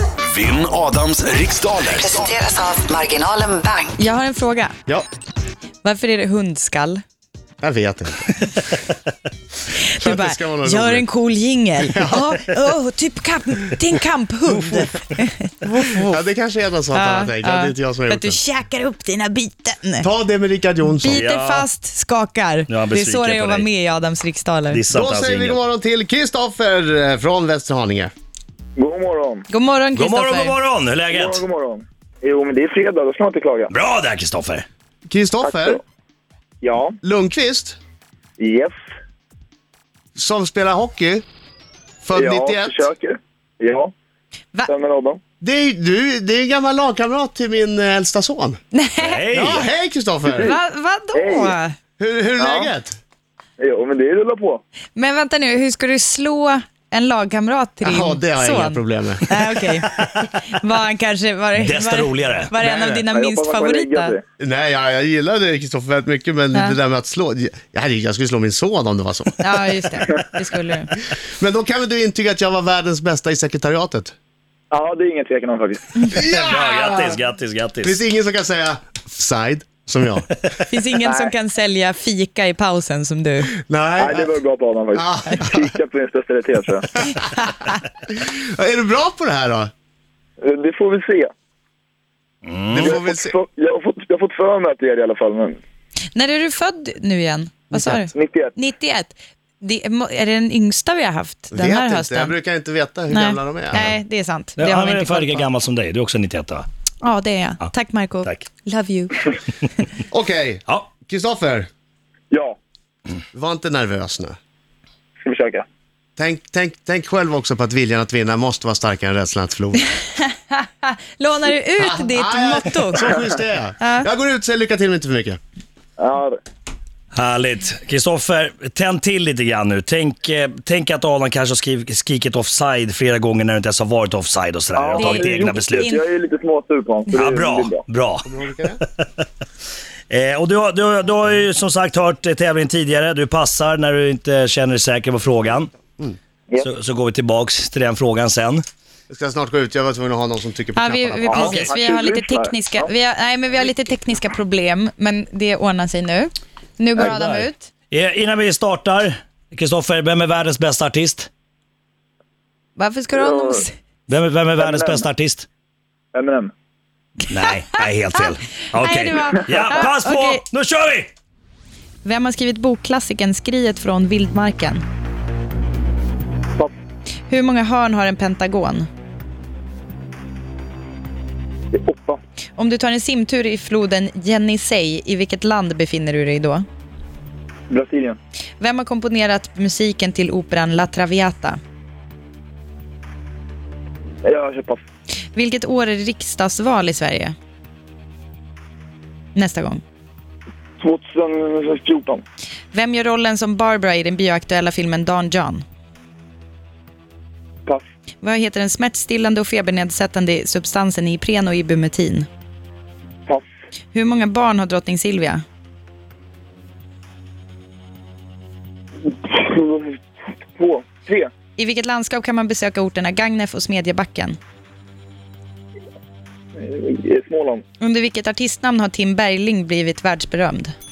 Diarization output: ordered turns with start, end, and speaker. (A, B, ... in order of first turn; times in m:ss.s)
0:00.3-0:02.4 A
0:02.0-0:03.9 B
0:04.0-0:04.7 C
0:05.8-0:07.0 C
0:07.6-0:08.3 D
0:09.8-0:16.1 C
0:10.0-0:11.0 D
0:11.8-0:12.4 D
0:15.8-0:18.4 D
0:16.9-0:20.1 C
0:20.0-0:21.2 D
0:20.9-0:24.8 C
0:21.1-0:21.7 E
0:22.7-0:23.7 E
0:24.7-0:25.6 E
0:24.9-0:28.1 D
0:28.8-0:29.5 F
0:29.5-0:30.6 C
0:29.9-0:31.4 E
0:31.1-0:33.7 F
0:33.7-0:34.6 E
0:35.1-0:35.8 D
0:35.4-0:35.8 F
0:36.6-0:37.0 F
0:37.0-0:37.8 D
0:38.4-0:38.7 F
0:40.2-0:41.2 D
0:42.0-0:42.9 D
0:42.1-0:43.9 F
0:44.6-0:45.2 F
0:45.4-0:48.6 D
0:48.7-0:49.2 C
0:49.0-0:49.7 E
0:49.3-0:50.6 D
0:50.2-0:50.6 F
0:50.4-0:51.7 C
0:51.1-0:51.5 F
0:52.0-0:53.0 D
0:52.4-0:52.7 F
0:53.6-0:54.6 F
0:54.9-1:04.2 C
0:57.8-0:59.6 D
1:01.6-1:02.5 E
1:02.6-1:03.0 D
1:03.1-1:04.2 F
1:04.4-1:10.0 D
1:09.4-1:10.9 C
1:11.4-1:14.1 D
1:14.7-1:16.0 F
1:16.1-1:17.2 D
1:16.3-1:18.0 E
1:17.8-1:20.6 D
1:20.7-1:23.5 C
1:21.0-1:21.3 F
1:23.6-1:24.4 D
1:24.0-1:26.9 F
1:24.9-1:25.7 D
1:27.2-1:27.7 C
1:28.1-1:29.7 D
1:30.4-1:31.3 F
1:32.4-1:33.0 E
1:32.7-1:33.3 D
1:32.8-1:35.6 F
1:36.1-1:42.4 C
1:37.7-1:38.0 D
1:38.1-1:38.5 F
1:41.5-1:44.0 D
1:43.1-1:45.5 C
1:44.6-1:46.6 E
1:47.0-1:49.2 C
1:50.1-1:51.7 D
1:52.3-1:52.6 F
1:53.3-1:54.4 D
1:55.2-1:55.6 F
1:56.2-1:59.8 D
2:00.2-2:03.2 C
2:01.8-2:05.4 D
2:03.8-2:04.1 C
2:06.0-2:06.4 F
2:07.1-2:15.9 E
2:14.7-2:17.8 F
2:15.0-2:16.0 C
2:17.1-2:18.3 E
2:18.2-2:18.8 D
2:18.8-2:19.2 E
2:20.1-2:25.7 E
2:26.6-2:28.6 E
2:29.1-2:31.4 D
2:30.8-2:37.7 C
2:31.2-2:32.9 F
2:31.3-2:31.7 E
2:37.0-2:41.3 E
2:42.8-2:43.7 C
2:44.1-2:45.4 E
2:44.6-2:45.0 F
2:46.1-2:46.5 F
2:47.3-2:51.1 E
2:48.7-2:50.4 C
2:52.0-2:54.8 C
2:57.3-2:58.9 C
3:01.7-3:02.2 F
3:02.6-3:06.6 C
3:07.7-3:08.2 F
3:08.6-3:11.6 C
3:14.2-3:14.8 F
3:15.3-3:17.3 C
3:19.3-3:19.8 C
3:20.8-3:22.2 F
3:22.7-3:25.6 C
3:28.2-3:32.3 C
3:33.9-3:35.4 C
3:39.1-3:40.0 F
3:40.6-3:41.3 F
3:41.6-3:44.4 C
3:46.6-3:47.6 F
3:47.8-3:50.7 C